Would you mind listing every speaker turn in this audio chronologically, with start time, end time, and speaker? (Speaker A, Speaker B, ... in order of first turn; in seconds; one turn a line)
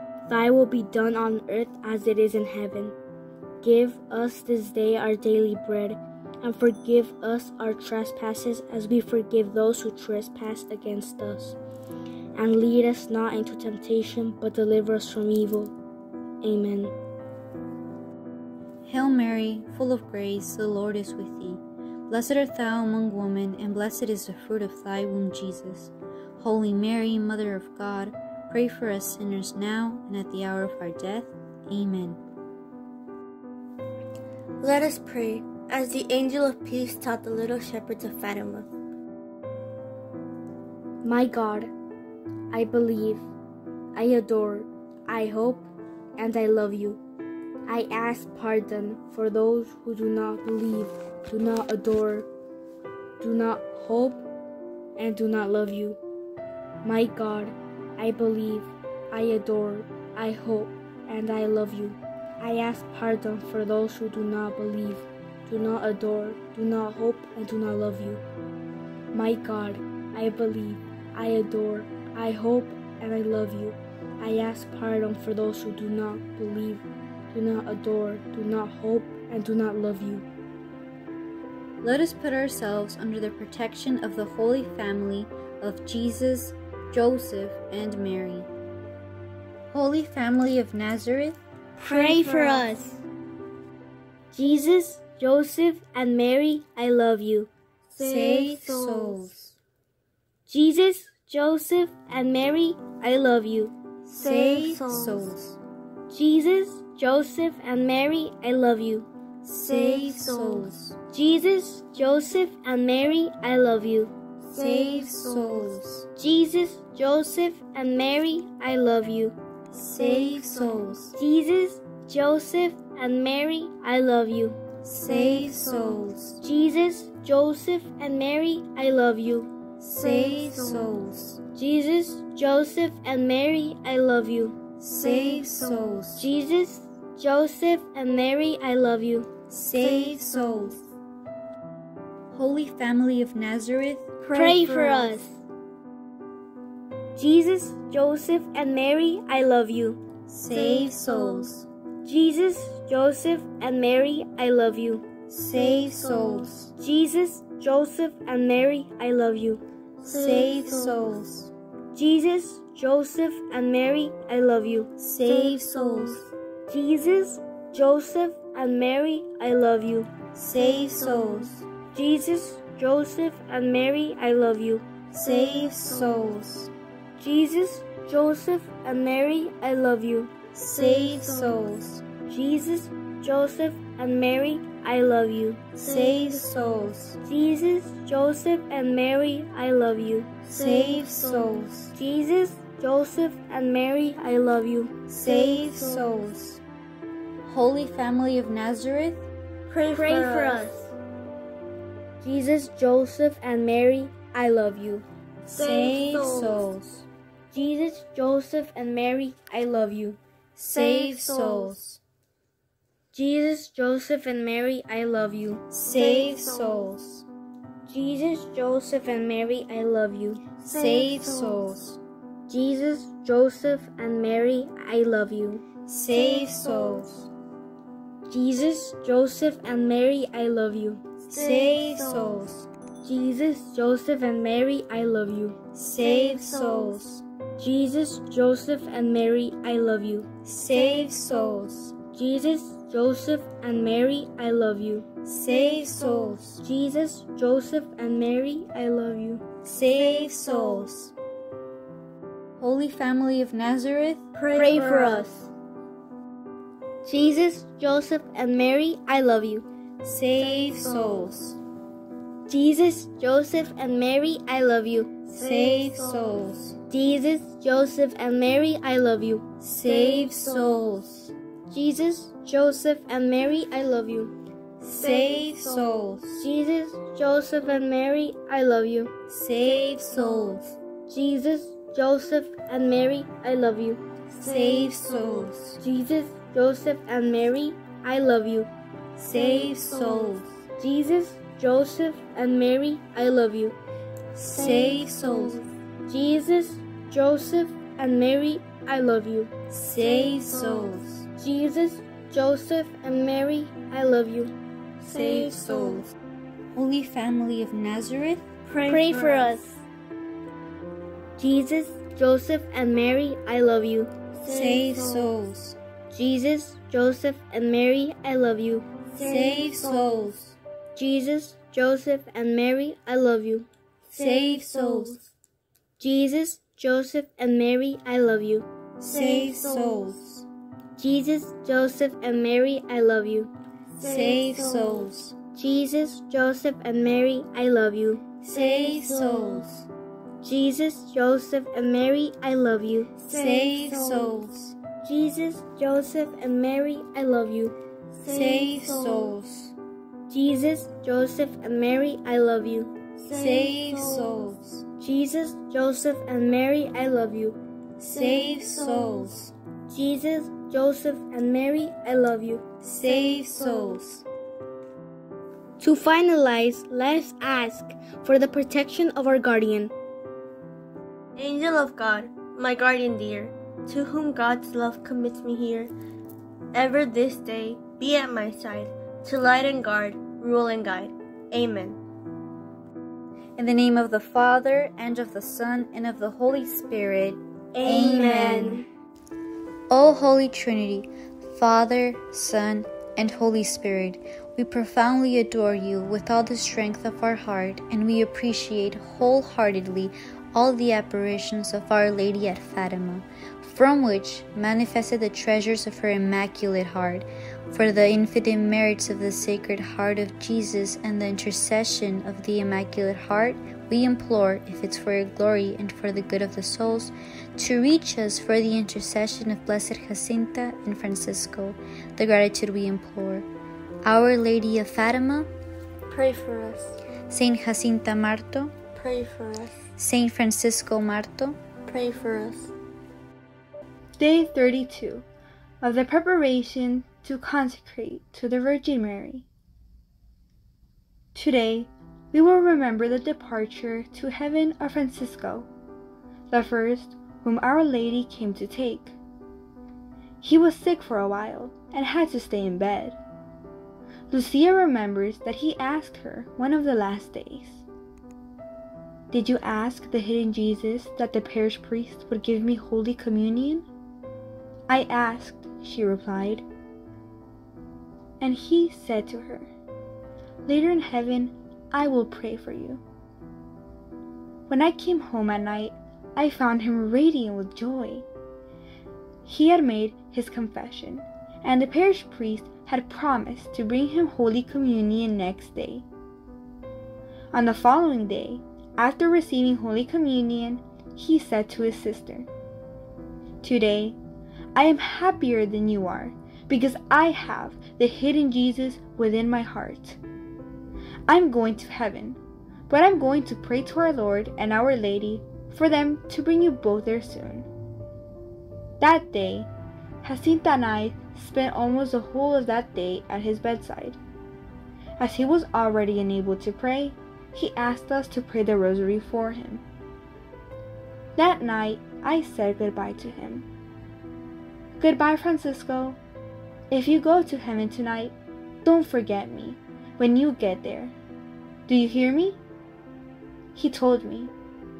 Speaker A: 0.3-2.9
Speaker A: 3.6-11.6
Speaker A: 12.3-15.7
Speaker A: 16.4-16.9
Speaker B: 18.8-32.2
Speaker C: 34.6-38.7
Speaker A: 41.0-41.7
Speaker A: 42.5-43.3
Speaker A: 44.0-47.0
Speaker A: 47.7-52.3
Speaker A: 53.2-54.2
Speaker A: 55.0-56.0
Speaker A: 56.8-68.2
Speaker A: 69.1-80.3
Speaker B: 81.8-88.5
Speaker B: 89.7-91.4
Speaker A: 91.8-93.0
Speaker C: 91.8-92.7
Speaker A: 94.3-97.5
Speaker C: 97.9-99.3
Speaker B: 98.0-99.5
Speaker A: 100.5-103.7
Speaker B: 104.1-105.6
Speaker C: 104.2-105.3
Speaker A: 106.1-109.1
Speaker B: 109.4-111.0
Speaker C: 109.6-110.7
Speaker A: 111.1-114.1
Speaker C: 114.5-115.8
Speaker B: 114.6-116.1
Speaker A: 116.2-119.4
Speaker B: 119.7-121.1
Speaker C: 119.9-121.0
Speaker A: 121.1-124.6
Speaker B: 124.8-126.4
Speaker C: 125.1-126.0
Speaker A: 126.4-129.5
Speaker B: 129.8-131.4
Speaker C: 130.0-131.0
Speaker A: 131.6-134.6
Speaker B: 134.8-136.2
Speaker C: 135.0-135.8
Speaker A: 136.2-139.3
Speaker B: 139.5-140.8
Speaker C: 139.8-140.7
Speaker B: 142.3-144.1
Speaker C: 144.2-145.2
Speaker A: 144.3-145.4
Speaker A: 147.2-150.0
Speaker B: 150.3-151.7
Speaker C: 150.5-151.5
Speaker A: 152.0-155.1
Speaker B: 155.3-156.7
Speaker C: 155.5-156.5
Speaker A: 156.8-159.6
Speaker C: 160.0-161.2
Speaker B: 160.1-161.5
Speaker A: 161.9-164.9
Speaker B: 165.0-166.2
Speaker C: 165.2-166.3
Speaker A: 166.7-170.1
Speaker B: 170.3-171.7
Speaker C: 170.7-171.5
Speaker A: 171.9-174.8
Speaker B: 175.1-176.7
Speaker C: 175.2-176.3
Speaker A: 177.2-180.3
Speaker B: 180.6-182.0
Speaker C: 180.8-181.7
Speaker A: 182.3-185.6
Speaker B: 185.8-187.2
Speaker C: 185.8-186.7
Speaker A: 187.2-190.3
Speaker B: 190.5-191.9
Speaker C: 190.5-191.7
Speaker A: 191.9-194.9
Speaker B: 195.1-196.6
Speaker C: 195.2-196.2
Speaker B: 197.4-199.3
Speaker C: 199.7-200.9
Speaker A: 199.9-200.8
Speaker A: 202.2-205.1
Speaker C: 205.5-206.7
Speaker B: 205.6-207.1
Speaker A: 207.5-210.2
Speaker B: 210.6-212.0
Speaker C: 210.7-211.8
Speaker A: 213.1-215.6
Speaker B: 215.7-217.2
Speaker C: 215.9-216.9
Speaker A: 217.9-220.4
Speaker C: 220.7-221.8
Speaker B: 220.7-222.0
Speaker A: 222.5-225.6
Speaker B: 225.9-227.3
Speaker C: 226.3-227.0
Speaker A: 228.3-231.0
Speaker B: 231.3-232.7
Speaker C: 231.3-232.5
Speaker A: 233.0-235.6
Speaker B: 235.8-237.2
Speaker C: 236.0-237.0
Speaker A: 237.6-240.3
Speaker B: 240.4-241.9
Speaker A: 242.1-245.1
Speaker B: 245.2-246.6
Speaker A: 246.6-249.4
Speaker B: 249.6-251.1
Speaker B: 252.6-254.2
Speaker C: 254.3-255.3
Speaker A: 254.5-255.5
Speaker A: 257.0-259.7
Speaker B: 260.0-261.6
Speaker C: 260.4-261.3
Speaker A: 262.5-265.1
Speaker B: 265.3-266.8
Speaker C: 265.3-266.4
Speaker A: 266.9-269.4
Speaker B: 269.6-271.3
Speaker C: 269.9-270.7
Speaker A: 271.7-274.3
Speaker B: 274.8-276.3
Speaker C: 274.9-276.0
Speaker A: 276.4-279.1
Speaker B: 279.3-280.7
Speaker A: 281.1-284.0
Speaker C: 284.4-285.5
Speaker B: 284.4-285.8
Speaker A: 285.8-288.7
Speaker B: 289.2-290.5
Speaker C: 289.3-290.4
Speaker A: 290.8-293.8
Speaker B: 294.4-295.6
Speaker C: 294.6-295.6
Speaker A: 296.1-299.5
Speaker B: 299.7-301.3
Speaker C: 300.0-301.0
Speaker A: 301.4-304.5
Speaker C: 305.0-306.1
Speaker B: 305.1-306.1
Speaker B: 306.7-308.4
Speaker C: 308.7-309.6
Speaker A: 308.9-309.8
Speaker A: 311.4-314.1
Speaker C: 314.4-315.4
Speaker B: 314.5-315.8
Speaker A: 316.1-318.9
Speaker C: 319.1-320.3
Speaker B: 319.2-320.6
Speaker A: 320.9-323.7
Speaker C: 324.1-325.2
Speaker B: 324.1-325.2
Speaker A: 326.0-328.7
Speaker B: 329.0-330.4
Speaker C: 329.0-330.2
Speaker A: 331.0-333.5
Speaker C: 333.9-335.1
Speaker B: 334.0-335.3
Speaker A: 335.6-338.2
Speaker B: 338.4-339.9
Speaker C: 338.5-339.7
Speaker A: 340.4-343.1
Speaker C: 343.2-344.4
Speaker B: 343.3-344.8
Speaker A: 345.0-347.8
Speaker C: 348.2-349.3
Speaker B: 348.2-349.7
Speaker A: 350.3-352.9
Speaker C: 353.2-354.4
Speaker B: 353.3-354.9
Speaker A: 355.0-357.6
Speaker B: 358.0-359.5
Speaker C: 358.1-359.3
Speaker A: 359.9-362.6
Speaker B: 362.8-364.2
Speaker C: 363.5-364.0
Speaker A: 365.8-369.9
Speaker C: 371.4-375.9
Speaker C: 376.7-382.0
Speaker B: 383.6-388.8
Speaker C: 387.8-388.7
Speaker A: 387.8-388.9
Speaker B: 389.9-423.5
Speaker B: 424.0-425.5
Speaker C: 426.1-426.9
Speaker B: 427.3-428.8
Speaker C: 428.9-429.8
Speaker B: 430.0-431.6
Speaker C: 431.9-432.7
Speaker D: 434.2-435.2
Speaker D: 435.8-439.4
Speaker D: 441.3-445.7
Speaker D: 446.5-449.2
Speaker D: 450.4-453.2
Speaker D: 454.3-457.9
Speaker D: 459.3-463.9
Speaker D: 464.9-466.6
Speaker D: 468.4-469.7
Speaker D: 470.7-473.0
Speaker D: 474.7-478.2
Speaker D: 479.4-486.1
Speaker D: 487.5-492.5
Speaker D: 493.6-494.2
Speaker D: 494.8-500.2
Speaker D: 501.3-502.4
Speaker D: 502.9-507.6
Speaker D: 509.0-509.7
Speaker D: 510.2-514.2
Speaker D: 515.2-519.8
Speaker D: 521.4-523.6
Speaker D: 525.0-526.2
Speaker D: 526.9-531.1
Speaker D: 531.9-532.6
Speaker D: 533.8-534.5